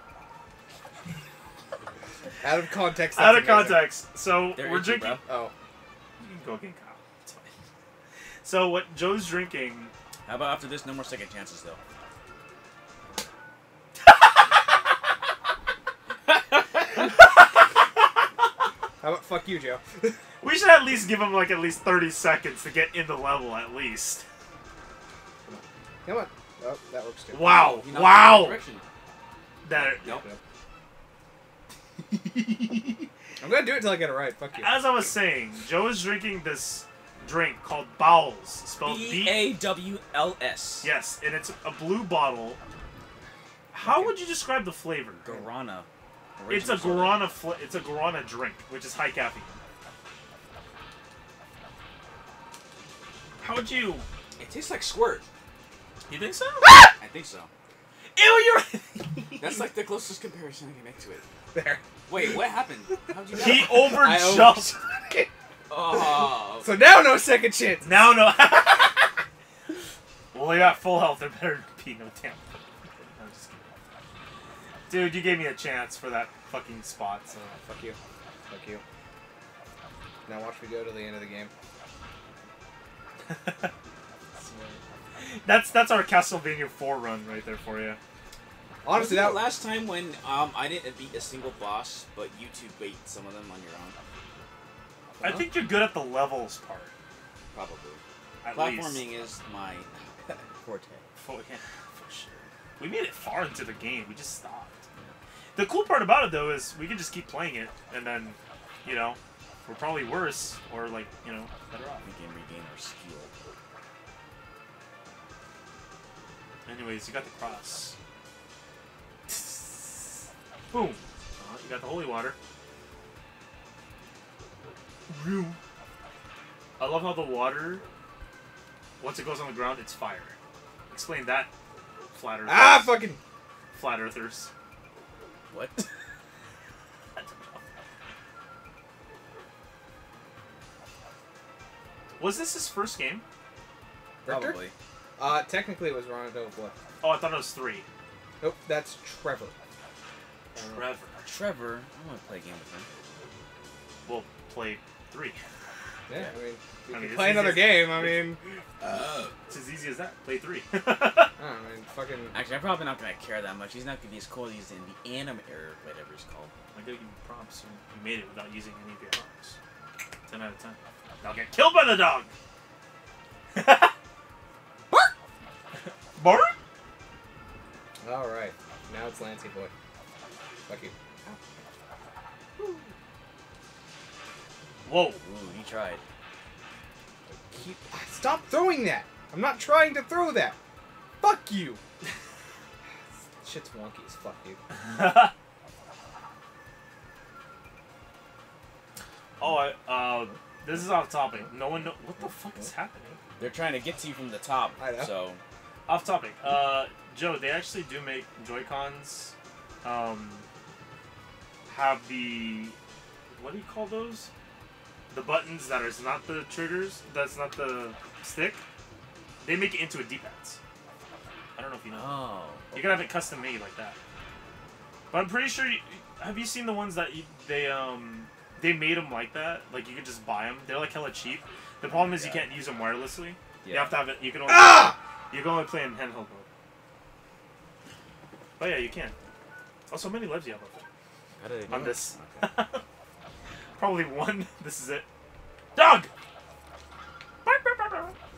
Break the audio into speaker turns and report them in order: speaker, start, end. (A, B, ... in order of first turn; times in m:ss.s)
0:02.4-0:04.0 A
0:03.1-0:05.2 B
0:04.6-0:05.2 C
0:05.2-0:05.5 A
0:06.2-0:07.5 B
0:08.4-0:09.9 B
0:10.2-0:11.8 C
0:16.5-0:16.9 C
0:17.0-0:17.3 B
0:19.0-0:20.1 A
0:20.4-0:24.2 B
0:25.4-0:27.7 A
0:27.3-0:28.6 B
0:27.6-0:28.8 C
0:29.6-0:30.2 B
0:29.8-0:30.4 A
0:32.3-0:33.0 B
0:33.4-0:34.8 A
0:34.5-0:39.5 B
0:38.8-0:40.9 C
0:40.8-0:42.6 B
0:43.7-0:45.4 B
0:43.8-0:44.1 A
0:45.2-0:45.9 C
0:46.4-0:47.3 C
0:46.5-0:49.6 B
0:53.4-0:54.0 B
0:54.4-0:55.2 C
0:56.1-0:56.9 B
0:57.0-0:57.5 C
0:58.2-0:59.6 B
0:59.4-1:01.2 C
1:01.5-1:01.8 A
1:02.1-1:04.1 C
1:03.3-1:05.3 A
1:03.3-1:04.7 B
1:05.7-1:06.7 C
1:05.9-1:08.2 A
1:07.8-1:09.1 B
1:10.3-1:13.7 B
1:14.9-1:17.6 B
1:17.6-1:18.0 A
1:18.5-1:18.8 A
1:20.2-1:21.5 A
1:23.2-1:23.7 B
1:24.4-1:28.0 B
1:28.8-1:29.5 A
1:28.9-1:34.0 C
1:35.2-1:35.5 C
1:35.2-1:36.9 B
1:37.5-1:38.0 C
1:38.4-1:39.0 B
1:38.5-1:41.0 C
1:41.2-1:44.8 B
1:45.5-1:52.0 B
1:52.0-1:53.4 C
1:56.6-1:58.0 B
1:59.3-2:02.4 B
2:05.1-2:05.6 B
2:06.8-2:07.8 B
2:09.0-2:10.4 B
2:10.9-2:11.5 B
2:12.1-2:13.1 B
2:12.4-2:13.2 A
2:13.7-2:14.5 B
2:15.5-2:15.9 C
2:17.2-2:17.6 B
2:22.2-2:23.2 B
2:24.2-2:24.6 A
2:24.2-2:24.7 C
2:25.2-2:26.7 A
2:27.0-2:27.8 B
2:28.4-2:29.5 A
2:30.6-2:30.8 A
2:30.6-2:31.2 B
2:31.2-2:32.9 C
2:34.0-2:35.4 B
2:36.1-2:39.1 A
2:36.9-2:38.3 B
2:38.8-2:39.3 C
2:39.5-2:41.3 B
2:41.4-2:42.3 A
2:42.3-2:46.5 C
2:46.7-2:49.6 B
2:50.2-2:52.3 B
2:53.5-2:53.9 B
2:55.8-2:56.5 B
2:58.0-2:59.7 A
3:00.7-3:01.6 A
3:04.8-3:05.2 B
3:05.2-3:06.0 C
3:07.3-3:10.6 A
3:11.2-3:11.8 A
3:13.4-3:14.6 A
3:14.7-3:15.3 B
3:19.4-3:23.2 B
3:23.4-3:25.4 C
3:24.8-3:25.1 A
3:25.9-3:30.4 B
3:31.7-3:32.8 B
3:33.3-3:34.3 B
3:35.1-3:38.6 B
3:39.4-3:40.6 B
3:41.6-3:42.2 B
3:41.9-3:43.1 C
3:42.7-3:44.0 B
3:45.1-3:56.5 B
3:51.8-3:52.5 C
3:53.6-3:54.0 C
3:54.4-3:55.0 A
3:58.6-3:59.1 B
3:59.9-4:00.8 B
4:01.4-4:02.5 C
4:01.7-4:02.8 B
4:03.8-4:05.0 B
4:05.8-4:06.1 B
4:07.4-4:08.1 B